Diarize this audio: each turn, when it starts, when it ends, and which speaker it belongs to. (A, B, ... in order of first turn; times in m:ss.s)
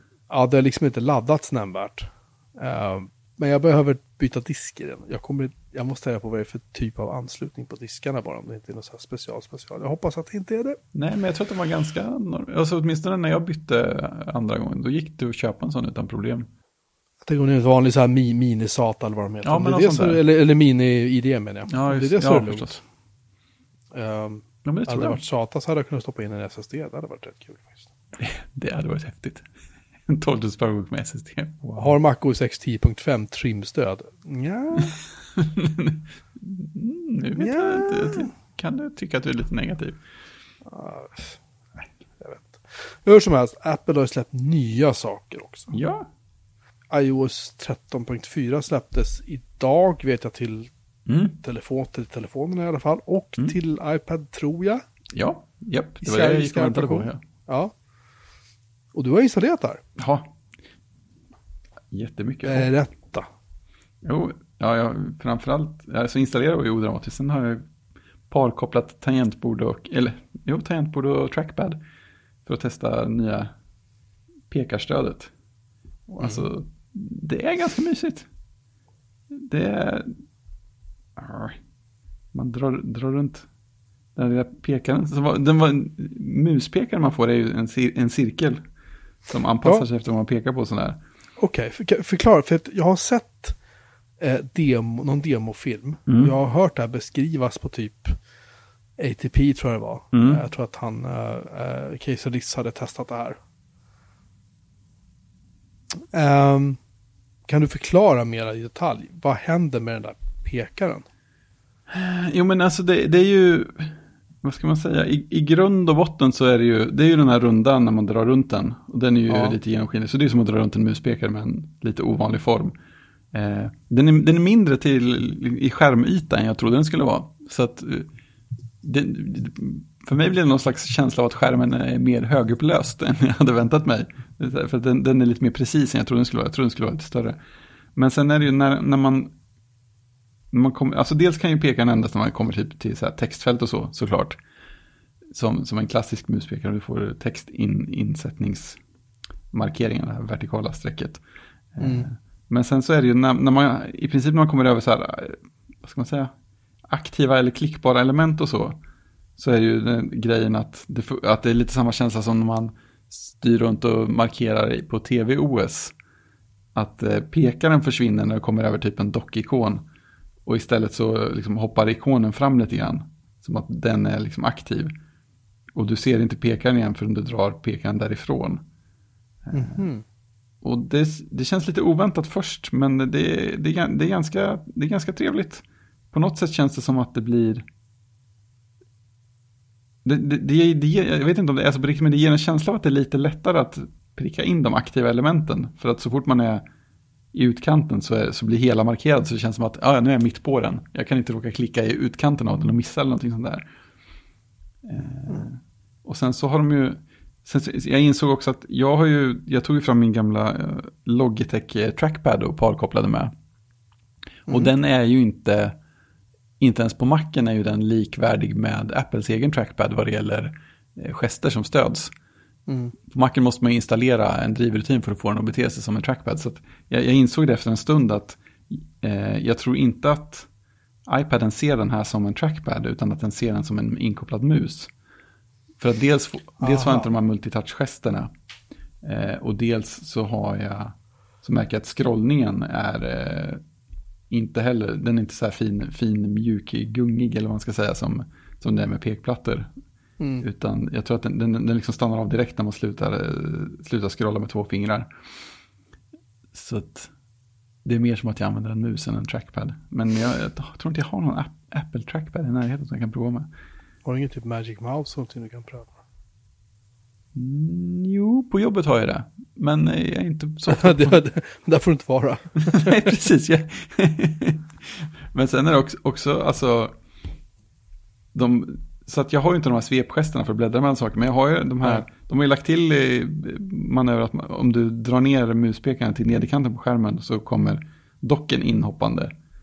0:00.3-0:10.8 A
0:10.9-0:16.5 B
0:17.2-0:22.8 A
0:19.4-0:20.2 B
0:21.7-0:22.8 B
0:23.9-0:27.9 A
0:24.6-0:25.2 B
0:28.2-0:29.4 B
0:30.1-0:31.9 B
0:31.8-0:35.0 A
0:34.7-0:40.0 B
0:37.4-0:38.3 A
0:40.6-0:41.4 A
0:42.2-0:45.8 A
0:45.7-0:46.1 B
0:46.9-0:50.7 A
0:51.1-0:51.4 B
0:51.4-0:54.8 A
0:55.1-0:57.2 B
0:56.0-0:57.7 A
0:58.9-0:59.8 A
1:00.0-1:00.3 B
1:01.9-1:02.7 B
1:02.4-1:03.3 A
1:04.0-1:07.7 B
1:08.3-1:11.8 B
1:12.4-1:13.5 B
1:14.5-1:15.3 B
1:16.1-1:18.3 B
1:19.3-1:20.2 B
1:21.2-1:21.6 B
1:22.3-1:23.5 B
1:24.2-1:28.6 B
1:29.3-1:31.0 B
1:31.4-1:33.6 A
1:34.2-1:38.2 A
1:36.1-1:36.3 B
1:39.0-1:43.4 A
1:40.1-1:40.4 B
1:46.1-1:46.8 A
1:47.5-1:51.0 A
1:51.9-2:02.7 B
1:59.3-1:59.6 A
2:03.3-2:08.1 B
2:08.8-2:17.4 B
2:17.9-2:19.3 B
2:20.5-2:24.4 B
2:25.3-2:28.8 B
2:29.5-2:31.2 B
2:31.7-2:36.3 B
2:31.8-2:32.1 A
2:36.9-2:38.8 B
2:39.4-2:45.9 B
2:46.7-2:49.8 B
2:50.4-2:54.9 B
2:55.7-2:58.6 B
2:59.4-2:59.8 B
2:59.5-3:00.0 A
3:00.6-3:07.6 B
3:10.0-3:16.6 B
3:17.3-3:23.6 B
3:24.8-3:33.3 B
3:34.5-3:35.8 B
3:36.6-3:42.1 B
3:42.7-3:42.9 A
3:43.1-3:50.5 B
3:51.1-3:54.9 B
3:55.8-3:58.3 B
3:56.6-3:57.1 A
3:59.0-4:03.6 B
4:04.3-4:09.7 B
4:10.2-4:10.4 A
4:10.4-4:15.1 B
4:16.5-4:17.1 B
4:17.8-4:23.5 B
4:24.0-4:26.0 A
4:27.3-4:31.2 B
4:30.7-4:33.1 A
4:32.7-4:36.9 B
4:38.3-4:49.3 B